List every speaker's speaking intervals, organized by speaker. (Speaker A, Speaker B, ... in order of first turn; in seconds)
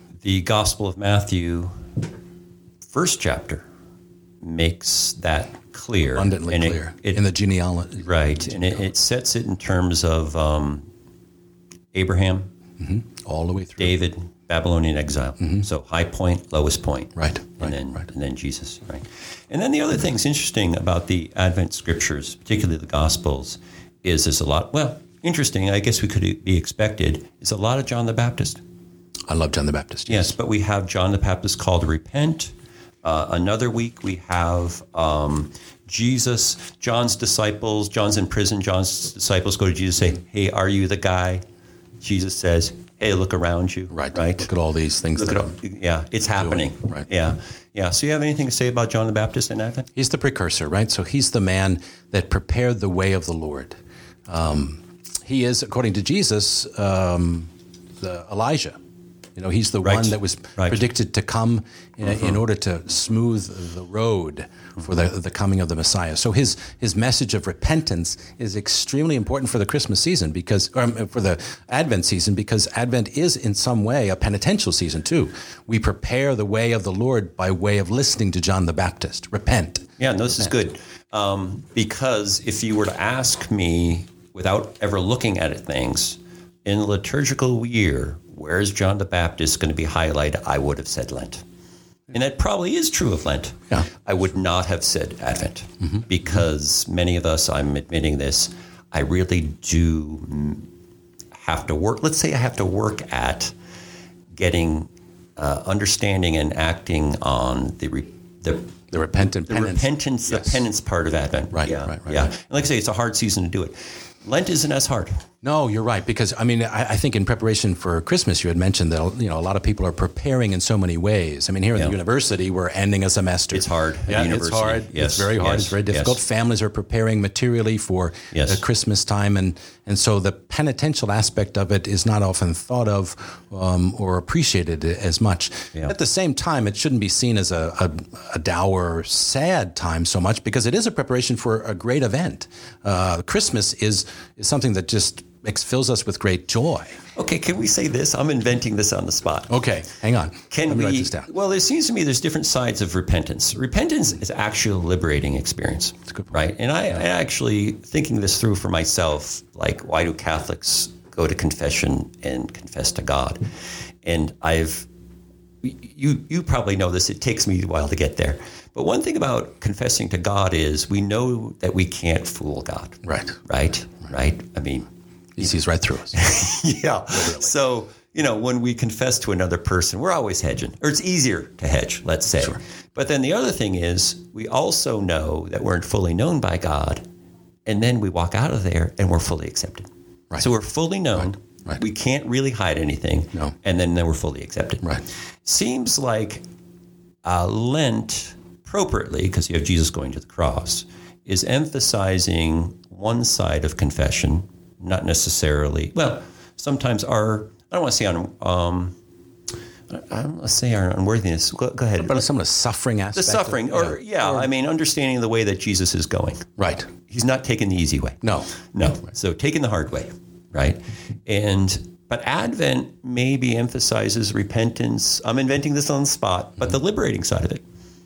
Speaker A: 0.2-2.0, 2.9-3.6, 4.4-7.2, 8.0-10.9, 11.9-12.5, 13.8-28.6, 30.1-41.4, 42.0-44.5, 45.1-49.9, 59.8-60.8, 80.0-91.4, 92.1-100.7, 101.3-103.5, 104.3-108.7, 109.5-115.2, 123.5-126.2, 128.3-128.6, 147.2-149.6, 150.5-163.5, 164.0-164.9, 165.6-174.9, 176.1-187.1, 187.7-196.4, 197.2-209.0, 209.9-212.2, 213.2-216.5, 217.1-227.6
Speaker B: 6.1-8.9, 12.8-13.9, 15.4-15.7, 17.2-17.8, 29.3-30.4, 43.9-45.5, 46.4-47.1, 50.0-57.5, 58.0-58.8, 59.4-80.5, 108.9-110.6, 111.5-112.3, 115.4-147.0, 149.5-151.3, 173.1-173.4, 175.4-176.2, 177.1-177.5, 212.0-214.5, 216.6-216.9, 218.2-218.5